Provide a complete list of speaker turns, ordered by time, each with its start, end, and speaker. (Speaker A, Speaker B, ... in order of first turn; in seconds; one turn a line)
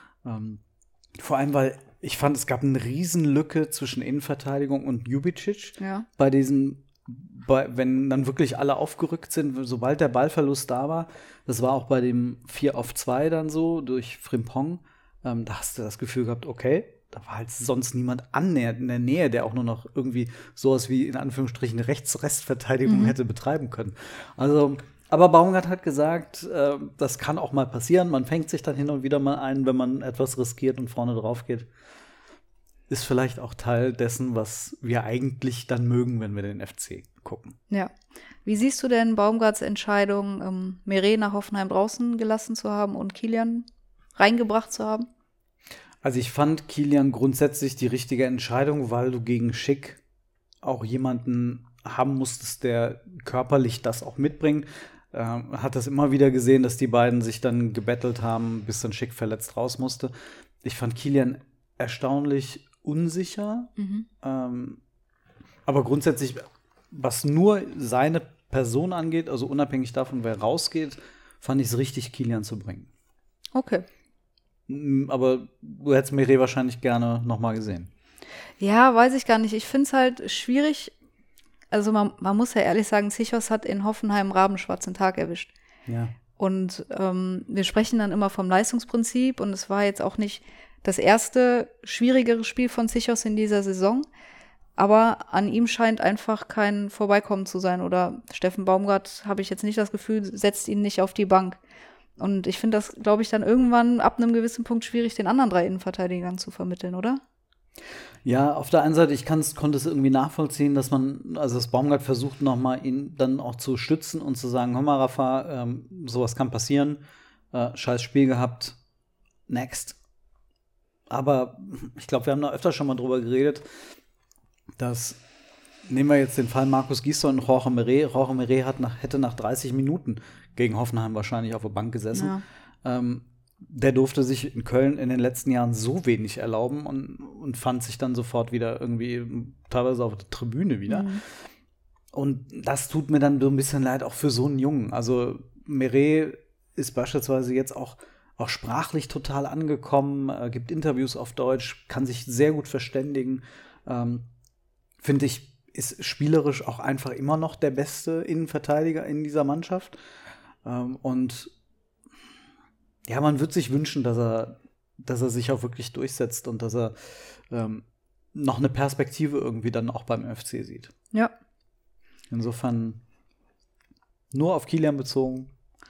Speaker A: 0.2-0.6
Speaker A: 1.2-31.7
Speaker B: 5.8-6.1
Speaker B: 22.9-23.1
Speaker A: 32.9-37.6
Speaker B: 38.4-45.1
Speaker A: 46.0-50.0
Speaker A: 50.6-63.7
Speaker B: 63.8-64.1
Speaker A: 64.2-64.8
Speaker A: 65.7-72.9
Speaker B: 73.5-73.9
Speaker A: 74.7-77.9
Speaker B: 78.6-80.9
Speaker B: 81.7-85.5
Speaker A: 85.9-86.1
Speaker B: 86.4-94.0
Speaker B: 94.8-101.6
Speaker B: 102.2-107.2
Speaker A: 108.2-118.8
Speaker A: 119.5-120.0
Speaker A: 121.1-123.7
Speaker A: 124.8-125.2
Speaker A: 125.9-141.2
Speaker B: 132.1-132.4
Speaker B: 140.9-141.2
Speaker A: 142.1-154.3
Speaker A: 155.0-160.0
Speaker A: 160.6-161.5
Speaker A: 163.1-170.9
Speaker A: 172.3-173.0
Speaker A: 174.3-175.5